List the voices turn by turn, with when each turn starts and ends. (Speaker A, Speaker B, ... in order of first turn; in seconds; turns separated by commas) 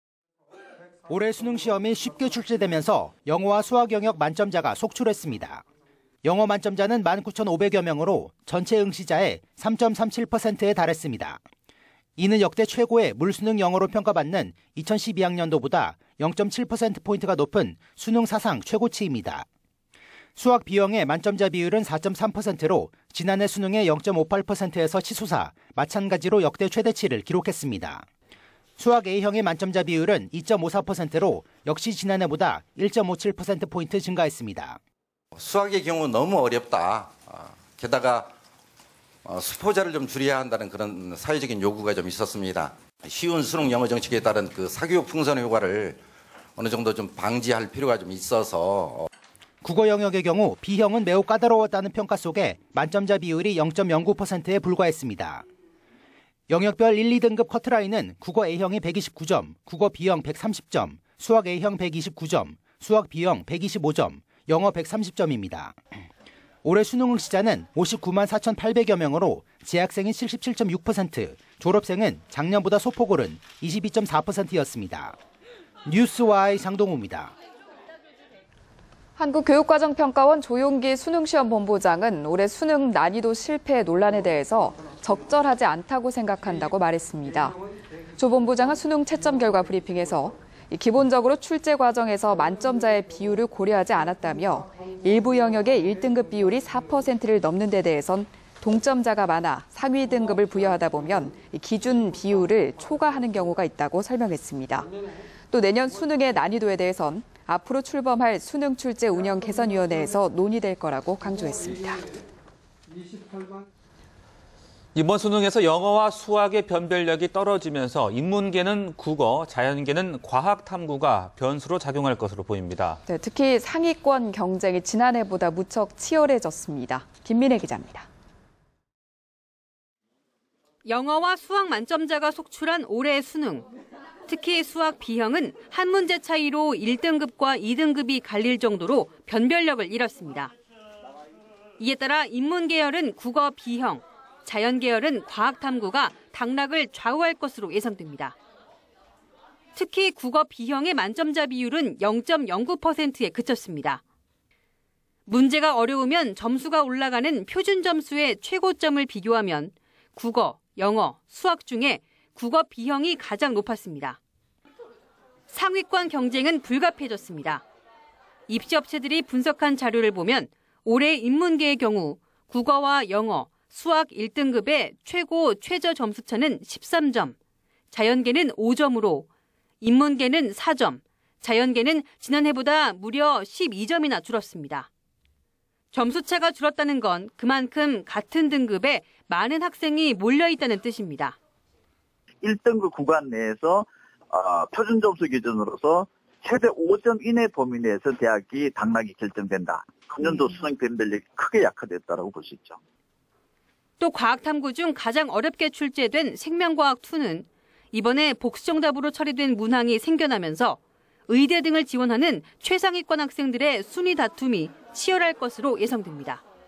Speaker A: 1.1-5.6, Speaker A: 6.2-11.4, Speaker A: 12.2-19.4, Speaker A: 20.4-28.1, Speaker A: 28.8-34.8, Speaker B: 35.3-38.3, Speaker B: 39.2-46.0, Speaker B: 46.5-49.1, Speaker A: 49.6-55.4, Speaker A: 56.5-65.8, Speaker A: 66.6-75.2, Speaker A: 75.8-77.3, Speaker C: 79.2-87.6, Speaker C: 88.2-104.9, Speaker C: 105.5-112.1, Speaker D: 114.9-123.0, Speaker C: 123.0-128.1, Speaker E: 130.8-133.7, Speaker E: 134.3-140.5, Speaker E: 141.8-148.3, Speaker E: 149.7-154.0, Speaker E: 155.2-164.2, Speaker E: 165.5-167.6, Speaker E: 168.5-177.3, Speaker E: 177.9-179.3, Speaker E: 179.8-184.9, Speaker E: 185.9-191.3, Speaker F: 192.4-202.8, Speaker E: 204.0-216.4